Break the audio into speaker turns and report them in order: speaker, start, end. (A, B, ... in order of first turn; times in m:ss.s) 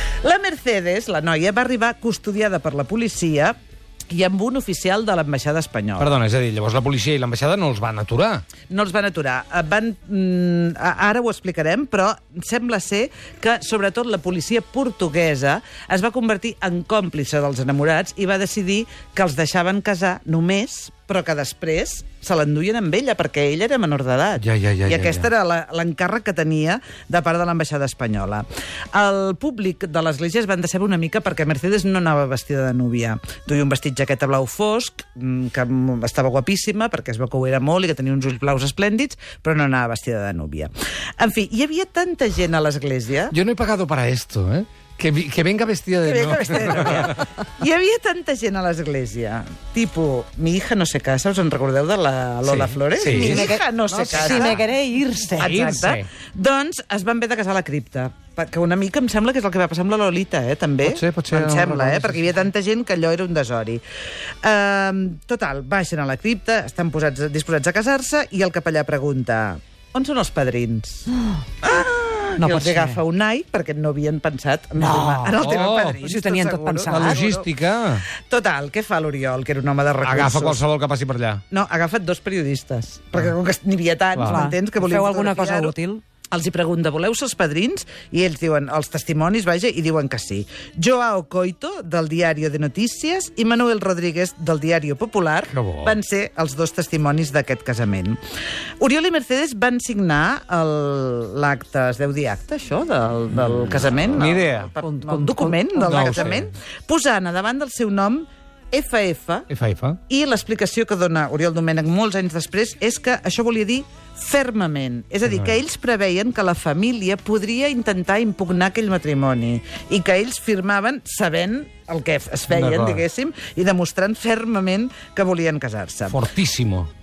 0:00.2-0:03.6 A
0:04.1-0:06.1 A
0:06.0-0:08.4 B
0:08.7-0:43.4 A
0:24.4-0:25.3 B
0:43.3-0:47.2 B
0:46.0-0:54.7 A
0:52.4-0:53.5 B
0:53.2-0:55.5 C
0:54.4-0:54.6 B
0:55.3-1:03.8 A
0:55.4-0:56.1 B
1:00.8-1:02.3 B
1:04.4-1:11.1 A
1:11.6-1:17.5 A
1:12.4-1:13.0 C
1:14.8-1:17.3 C
1:15.4-1:16.0 B
1:16.9-1:18.0 B
1:18.3-1:20.6 A
1:20.0-1:21.4 B
1:21.5-1:25.8 A
1:24.1-1:24.4 B
1:24.3-1:26.0 C
1:26.3-1:38.2 A
1:35.5-1:36.0 B
1:38.8-1:49.5 A
1:44.2-1:44.7 B
1:44.8-1:46.3 C
1:45.8-1:46.5 B
1:49.5-1:50.0 B
1:50.1-2:06.2 A
1:55.3-1:55.6 B
2:02.5-2:03.0 B
2:06.1-2:06.9 B